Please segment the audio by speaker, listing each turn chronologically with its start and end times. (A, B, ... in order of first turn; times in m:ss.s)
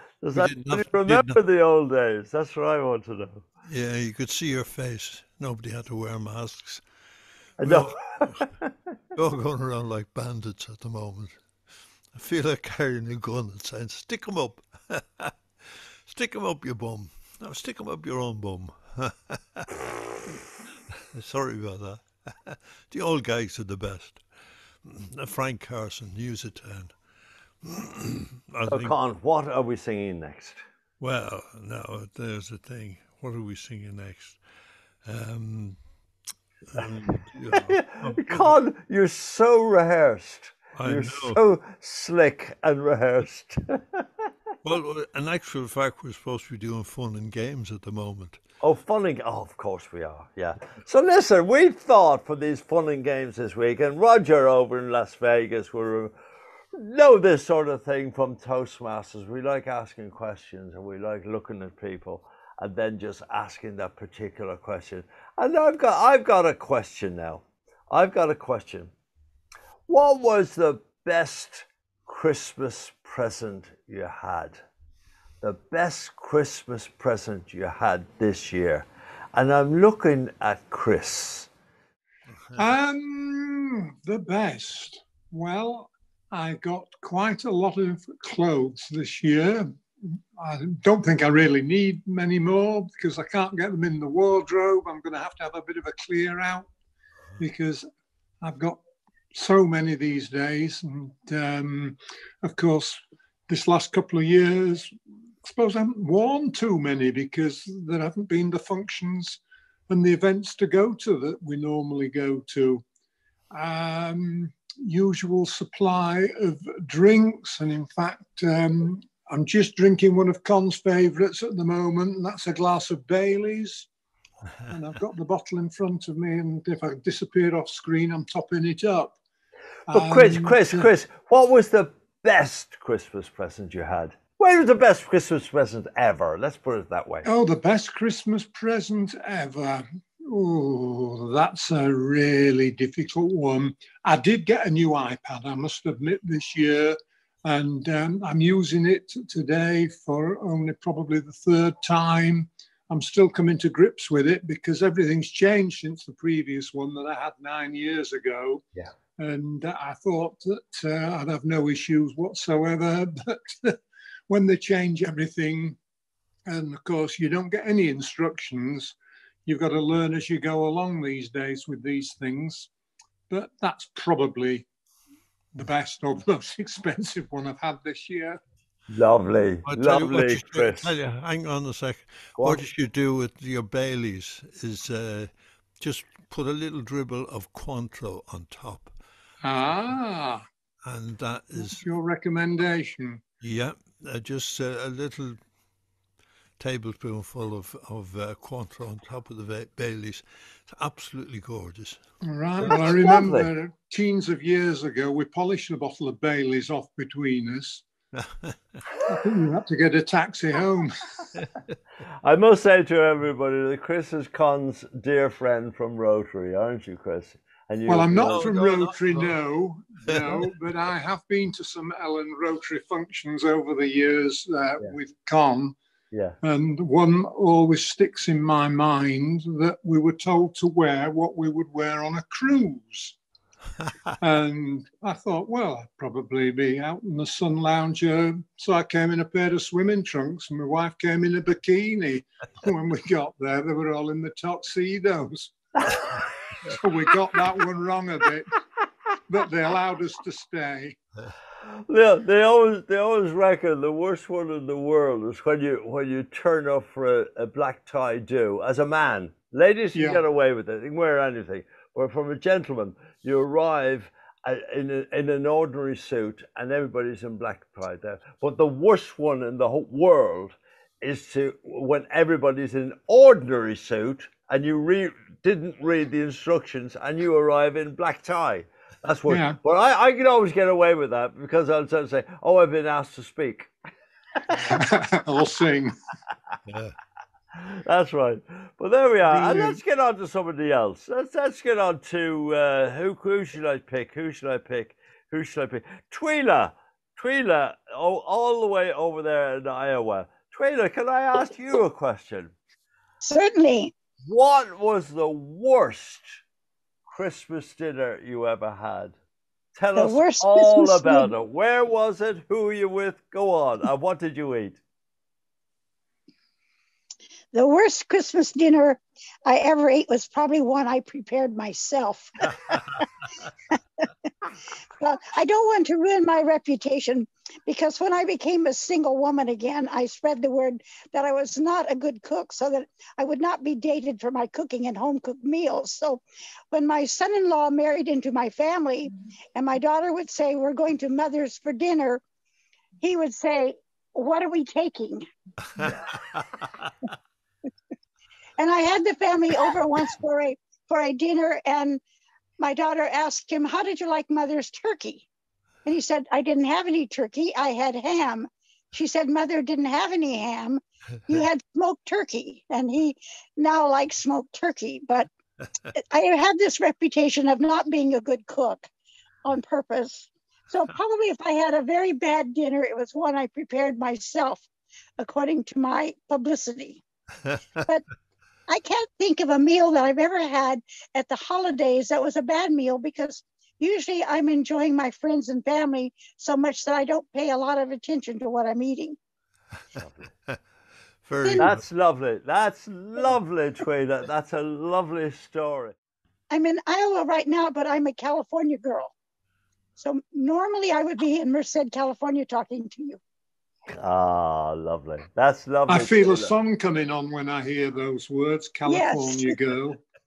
0:00.2-0:03.4 A
0:00.3-0:01.4 B
0:03.6-0:06.8 B
0:07.6-0:08.5 B
0:07.6-0:08.7 A
0:09.2-0:11.4 B
0:12.1-0:24.2 B
0:24.8-0:27.0 B
0:27.6-0:28.9 B
0:28.7-0:30.6 A
0:31.0-0:34.4 B
0:35.0-0:35.8 B
0:36.7-0:38.6 B
0:37.5-0:44.0 A
0:40.8-0:41.4 B
0:44.6-0:48.4 B
0:48.6-0:56.1 A
0:56.7-1:08.9 A
1:09.9-1:14.6 A
1:15.4-1:21.5 A
1:22.6-1:29.7 C
1:30.4-1:36.7 C
1:37.4-1:37.8 C
1:38.4-1:38.8 C
1:39.3-1:44.9 C
1:45.4-1:52.8 C
1:53.5-2:03.9 C
2:04.7-2:09.2 C
2:09.9-2:10.9 C
2:09.9-2:17.3 A
2:17.2-2:38.6 C
2:39.2-2:45.8 C
2:46.5-2:52.7 C
2:53.3-2:54.6 C
2:55.6-2:58.4 C
2:58.9-3:00.9 A
2:59.6-3:08.9 B
3:02.4-3:02.7 A
3:09.4-3:10.4 C
3:10.8-3:11.8 B
3:11.6-3:13.2 C
3:13.4-3:15.4 B
3:16.6-3:22.0 B
3:22.2-3:27.8 C
3:22.6-3:23.5 A
3:28.1-3:28.6 B
3:29.0-3:31.2 C
3:32.2-3:38.5 A
3:37.9-3:45.8 C
3:38.2-3:39.3 B
3:40.1-3:40.5 B
3:46.1-3:46.4 A
3:46.4-3:53.2 C
3:54.2-4:06.0 C
4:06.7-4:08.6 C
4:09.3-4:11.0 C
4:11.9-4:43.7 A
4:19.9-4:20.2 C
4:39.3-4:39.6 C
4:44.5-4:45.9 C
4:46.7-4:47.0 B
4:47.6-5:02.5 A
4:49.2-4:49.8 C
5:03.2-5:03.9 D
5:04.2-5:06.3 A
5:07.1-5:09.2 A
5:09.8-5:14.8 A
5:09.9-5:11.3 D
5:17.5-5:23.0 D
5:25.0-5:42.2 D
5:43.0-5:45.2 D
5:45.8-5:46.4 B
5:48.6-5:52.0 D
5:52.6-5:55.3 D
5:55.8-6:05.3 D
6:05.9-6:08.9 D
6:09.4-6:14.7 D
6:15.2-6:17.0 D
6:18.7-6:29.2 D
6:30.0-6:30.3 A
6:31.2-6:31.8 B
6:31.6-6:35.9 A
6:36.5-6:39.1 D
6:40.0-6:43.2 D
6:43.9-6:46.5 A
6:45.9-6:50.0 C
6:48.8-6:49.5 D